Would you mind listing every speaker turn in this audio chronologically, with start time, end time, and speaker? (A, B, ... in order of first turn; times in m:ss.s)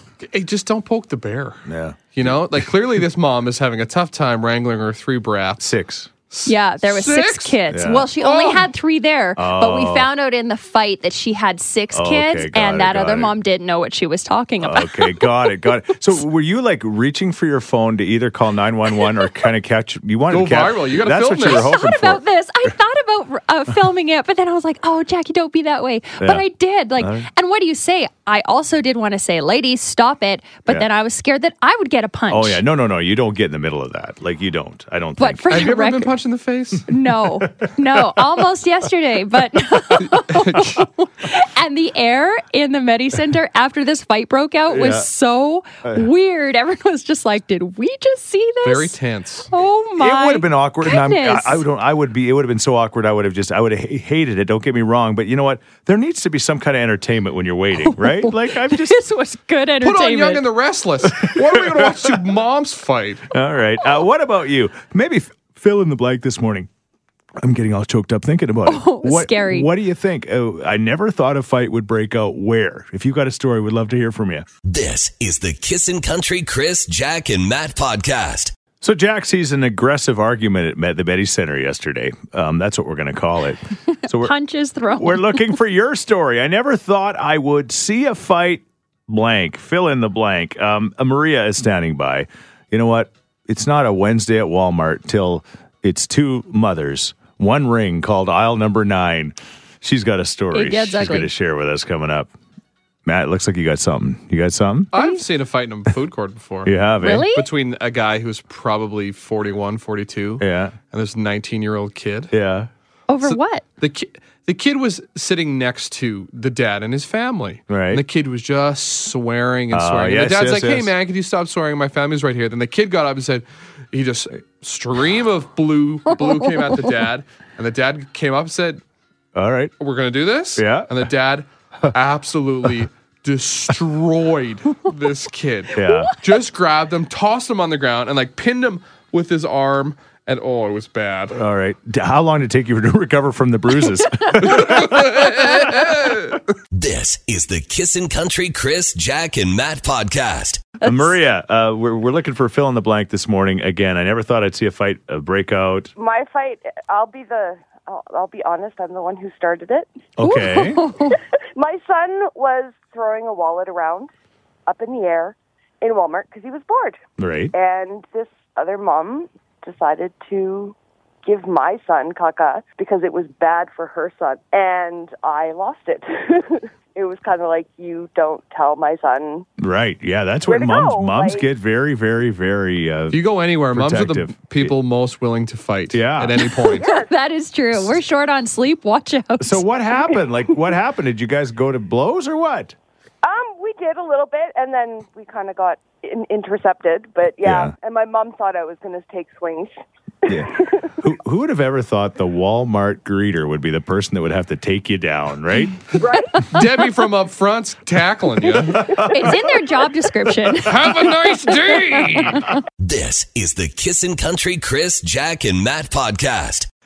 0:00.2-0:05.6 A
0:01.7-0:02.6 B
0:05.6-0:06.1 B
0:06.3-0:07.6 A
0:06.5-0:15.6 C
0:07.7-0:08.1 B
0:08.2-0:08.7 A
0:09.4-0:10.1 B
0:11.9-0:13.3 B
0:14.6-0:22.2 B
0:20.3-0:21.7 A
0:21.4-0:32.6 C
0:26.2-0:26.4 B
0:27.0-0:27.3 B
0:32.3-0:35.6 B
0:35.2-0:36.1 C
0:35.5-0:36.8 A
0:36.9-0:49.0 C
0:37.4-0:38.2 B
0:40.0-0:40.8 A
0:44.7-0:45.1 B
0:48.6-0:49.5 A
0:49.5-0:51.6 C
0:50.0-0:59.0 B
0:57.8-1:00.5 C
0:59.8-1:03.3 A
1:01.2-1:02.2 B
1:03.3-1:06.7 B
1:07.4-1:14.5 B
1:08.7-1:09.7 C
1:14.6-1:18.5 D
1:18.8-1:24.3 B
1:24.1-1:25.6 C
1:25.0-1:42.3 B
1:40.5-1:41.3 C
1:43.0-1:44.9 B
1:44.9-1:46.8 A
1:44.9-1:45.2 C
1:46.6-1:47.3 B
1:47.0-1:47.5 C
1:47.3-1:52.3 A
1:50.4-1:50.8 B
1:52.3-1:52.7 B
1:53.1-1:53.6 C
1:53.3-2:08.8 A
1:57.7-1:58.0 B
1:59.7-2:00.9 B
2:09.3-2:09.7 B
2:09.8-2:21.4 A
2:10.6-2:11.0 B
2:15.7-2:16.1 B
2:21.3-2:25.8 B
2:24.4-2:26.4 A
2:26.7-2:30.7 D
2:30.8-2:35.9 B
2:30.8-2:31.1 C
2:36.0-2:39.9 E
2:40.2-2:40.8 B
2:40.2-2:41.2 C
2:41.6-2:44.1 E
2:44.7-2:47.0 E
2:47.2-2:47.5 B
2:47.5-2:59.5 E
2:59.6-3:04.7 B
3:00.4-3:01.5 E
3:03.1-3:06.9 A
3:05.9-3:06.4 B
3:06.5-3:09.6 C
3:06.7-3:07.1 E
3:09.4-3:12.8 B
3:13.2-3:19.8 E
3:17.4-3:17.7 B
3:20.3-3:20.9 E
3:20.3-3:25.8 B
3:26.1-3:29.0 A
3:28.8-3:29.5 B
3:29.0-3:30.9 C
3:30.6-3:32.5 A
3:31.9-3:32.5 C
3:32.8-3:36.7 D